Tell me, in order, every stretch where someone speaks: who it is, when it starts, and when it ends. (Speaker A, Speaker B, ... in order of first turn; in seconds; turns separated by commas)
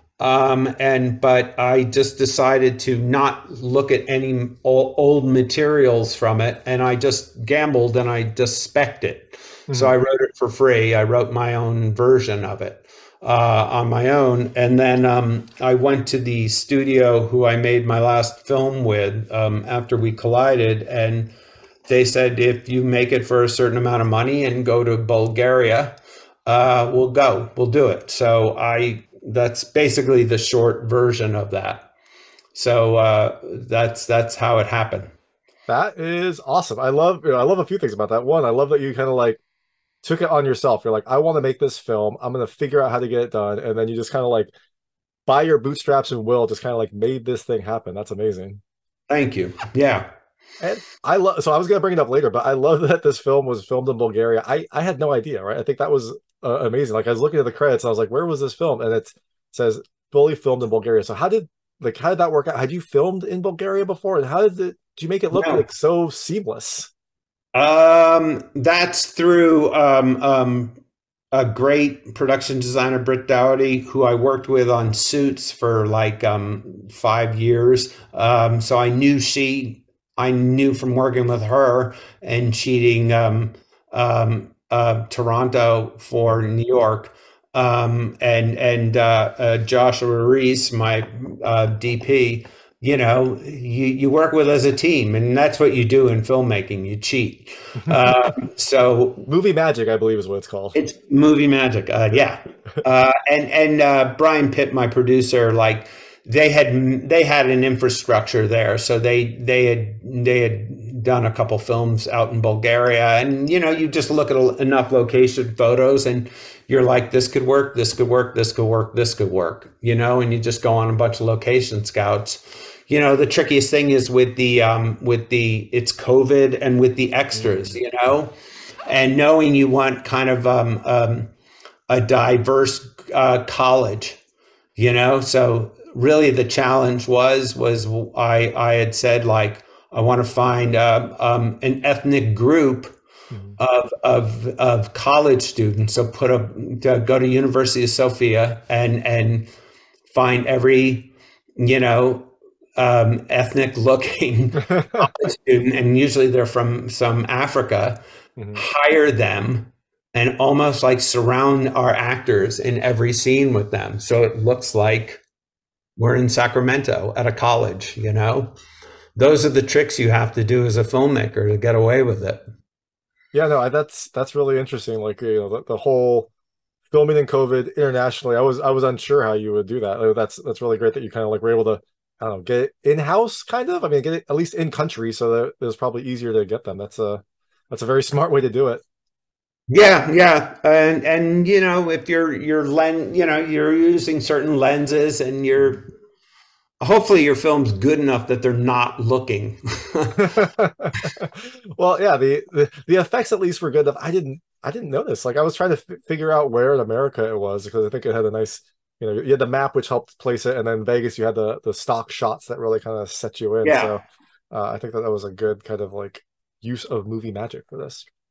Speaker A: 0.2-21.4, Speaker B: 9.7-9.9, Speaker A: 21.9-31.9, Speaker A: 32.5-35.1, Speaker B: 35.7-39.4, Speaker B: 40.0-44.5, Speaker B: 45.3-48.6, Speaker A: 49.1-50.1, Speaker B: 50.6-66.9, Speaker A: 65.3-65.6, Speaker A: 67.5-70.8, Speaker A: 71.3-99.3, Speaker B: 97.8-98.1, Speaker B: 99.3-100.8, Speaker A: 100.7-128.3, Speaker B: 127.3-127.8, Speaker A: 128.9-131.3, Speaker A: 131.9-134.2, Speaker A: 134.8-142.9, Speaker B: 143.3-143.6, Speaker A: 143.6-149.5, Speaker A: 150.1-158.0, Speaker B: 154.7-155.1, Speaker B: 158.4-158.6, Speaker A: 158.6-165.2, Speaker A: 166.0-168.6, Speaker A: 169.2-172.5, Speaker B: 173.3-176.3, Speaker B: 176.9-188.8, Speaker A: 189.7-195.9, Speaker A: 196.8-200.3, Speaker B: 200.3-218.1, Speaker A: 213.6-213.9